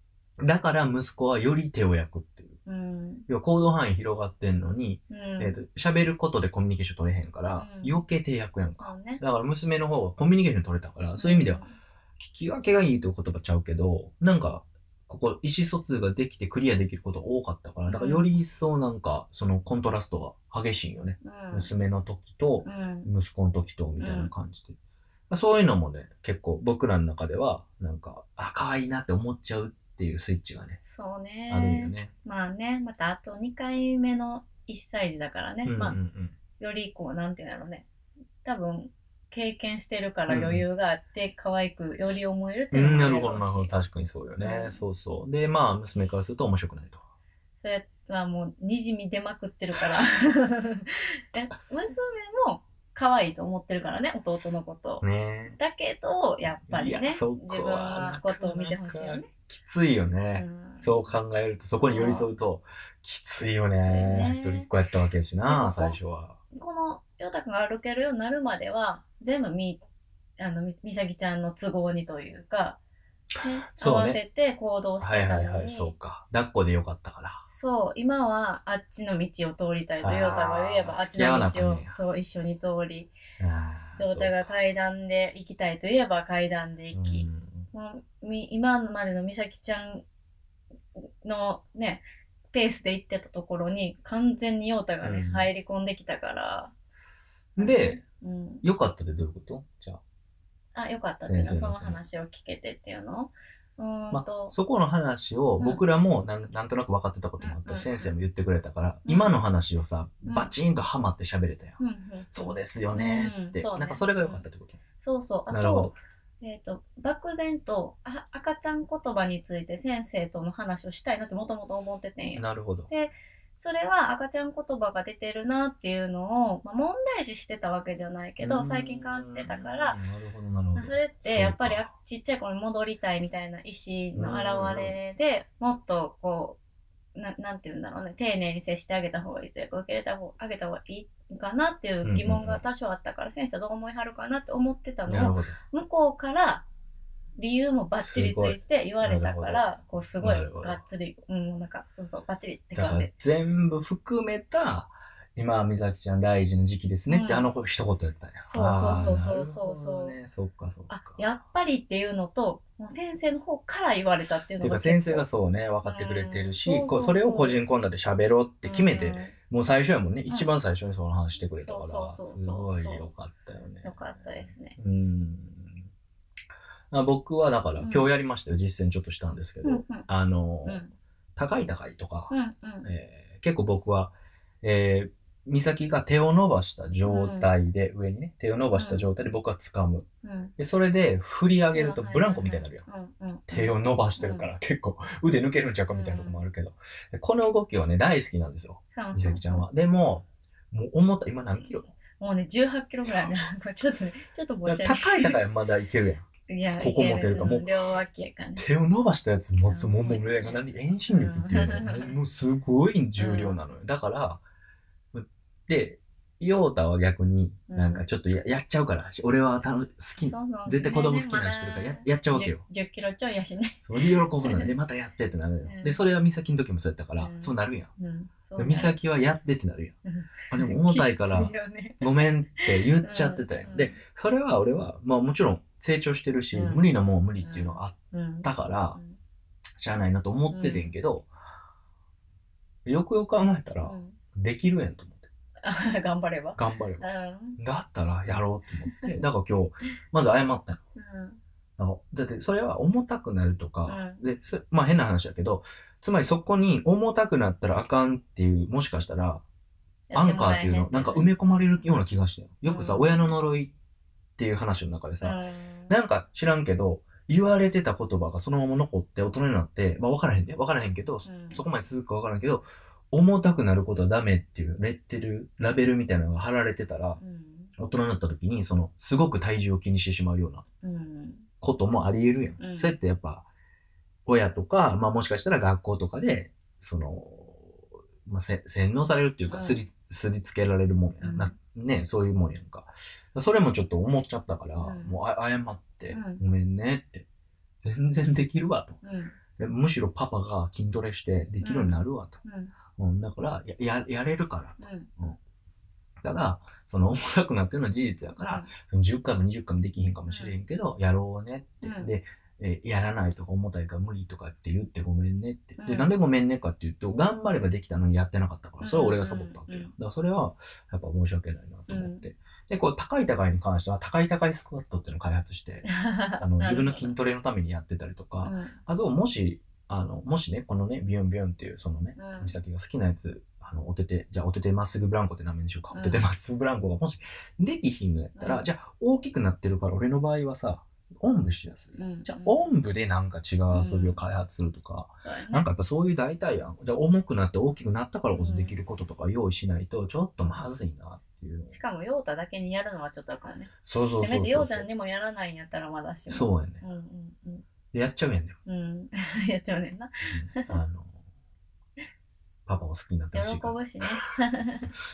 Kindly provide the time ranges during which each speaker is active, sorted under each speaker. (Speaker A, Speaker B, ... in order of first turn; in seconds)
Speaker A: 0.4-2.6, 3.3-11.6, 12.2-24.8, 25.3-30.8, 31.5-32.1, 35.6-36.3, 40.3-40.6, 42.7-47.0, 55.0-55.6, 56.6-66.4, 73.7-74.2, 75.0-77.4, 80.0-82.0, 83.4-84.5, 86.9-87.7, 95.0-95.5, 97.5-98.0, 98.6-100.0, 101.2-102.0, 104.1-111.8, 112.3-114.8, 115.5-115.9, 122.3-122.9, 128.4-131.9, 134.1-135.0, 142.0-142.6, 145.1-145.6, 148.0-149.7, 150.2-150.8, 152.7-161.3, 164.6-175.9, 176.9-180.8, 181.3-190.0, 190.6-192.8, 193.5-201.9, 204.6-206.2, 206.8-207.7, 208.6-214.4, 215.1-222.6, 223.8-227.9, 228.6-229.9, 230.5-239.0, 239.8-241.3, 242.8-245.3, 246.6-247.0, 247.6-250.8, 251.8-259.4, 260.1-263.7, 264.4-277.2, 277.8-280.6, 281.6-283.4, 284.2-297.2, 297.8-299.0, 299.6-302.4, 302.9-305.4, 306.2-351.8, 353.8-354.9, 356.3-356.8, 357.9-358.6, 360.3-361.2, 362.7-363.8
Speaker B: 2.6-3.3, 5.1-5.6, 7.5-8.0, 8.8-9.2, 11.2-11.8, 17.9-18.4, 21.2-21.7, 22.6-23.1, 24.0-24.3, 30.8-36.0, 36.6-37.9, 38.4-43.7, 44.4-44.8, 47.6-59.3, 60.3-61.1, 61.8-62.3, 63.8-64.7, 65.5-66.0, 66.5-69.8, 70.4-72.8, 73.4-75.9, 77.5-83.1, 84.0-90.0, 91.0-96.7, 97.6-98.6, 100.7-104.5, 105.6-105.8, 107.4-108.1, 109.0-109.3, 110.3-110.5, 111.8-114.4, 115.0-130.0, 130.7-136.6, 137.1-146.7, 147.3-153.1, 157.1-157.5, 158.4-160.2, 160.9-165.2, 165.8-167.6, 168.6-169.3, 171.5-173.1, 173.8-174.8, 177.8-178.1, 179.6-180.1, 180.6-180.9, 182.3-182.9, 187.0-187.5, 188.7-189.1, 190.2-190.5, 191.7-194.5, 195.9-196.4, 198.9-199.7, 201.6-205.4, 206.5-208.6, 209.6-212.1, 213.2-213.6, 217.7-218.1, 220.2-223.9, 224.4-224.7, 225.6-226.0, 227.2-228.9, 230.1-232.1, 232.7-234.0, 236.5-236.8, 237.4-239.2, 240.5-240.9, 243.8-244.2, 245.6-247.6, 250.9-251.4, 253.8-254.2, 260.1-261.3, 262.7-263.3, 265.2-265.9, 271.2-271.6, 277.2-277.7, 280.8-281.5, 282.6-283.0, 289.5-289.8, 291.2-291.5, 294.8-295.2, 296.1-296.4, 299.0-299.4, 301.6-302.7, 304.8-305.1, 308.4-308.7, 310.3-310.6, 311.8-312.1, 315.8-316.1, 318.8-319.9, 321.9-322.3, 325.8-327.2, 328.4-328.8, 332.2-332.6, 335.9-336.2, 338.4-338.6, 341.9-342.6, 343.7-344.2, 345.2-345.7, 348.3-348.8, 351.7-357.6, 358.7-360.8, 363.3-364.9